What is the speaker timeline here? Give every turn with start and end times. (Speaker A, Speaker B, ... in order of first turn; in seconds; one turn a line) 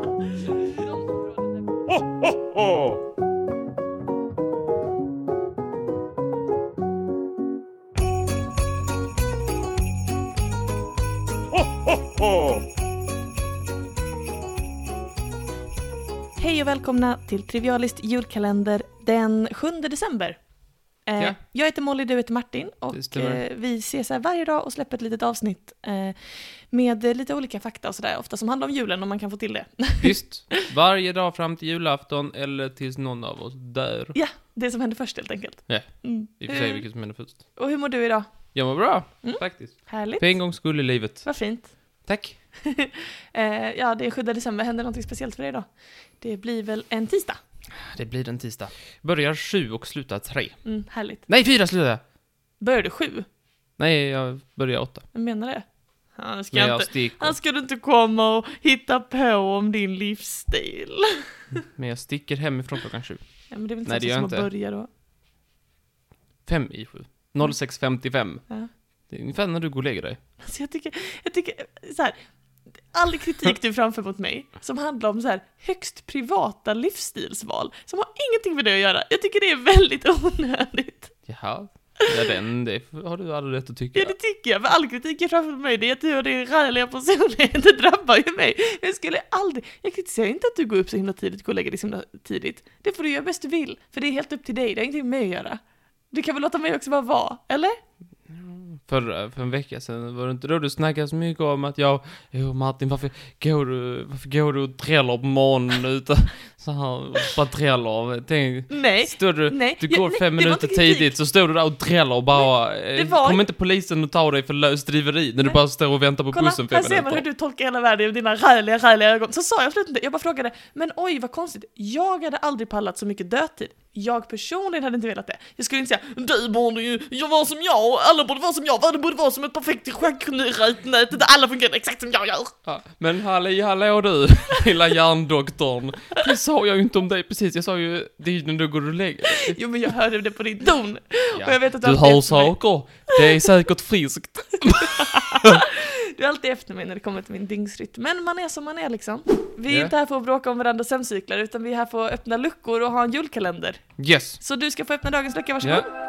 Speaker A: 16.4-20.4
Speaker A: 21.0-30.6
Speaker B: 22.9-23.4
Speaker B: 30.0-34.2
Speaker A: 34.1-38.5
Speaker B: 35.7-37.6
Speaker B: 38.5-42.4
Speaker A: 39.2-42.1
Speaker A: 42.6-45.7
Speaker A: 46.2-47.4
Speaker B: 47.8-52.0
Speaker A: 50.6-51.3
Speaker A: 52.6-53.2
Speaker B: 53.8-55.0
Speaker A: 55.1-61.4
Speaker B: 56.5-57.4
Speaker B: 61.5-64.5
Speaker A: 63.5-64.9
Speaker B: 66.5-68.5
Speaker B: 69.1-70.2
Speaker A: 70.4-72.2
Speaker A: 72.9-81.2
Speaker B: 81.3-84.1
Speaker A: 83.9-97.8
Speaker B: 98.3-117.2
Speaker A: 108.7-111.1
Speaker A: 112.4-113.4
Speaker A: 116.3-132.5
Speaker B: 132.7-139.6
Speaker A: 139.5-143.1
Speaker B: 141.3-145.6
Speaker A: 144.8-153.9
Speaker B: 154.0-154.4
Speaker A: 154.4-155.9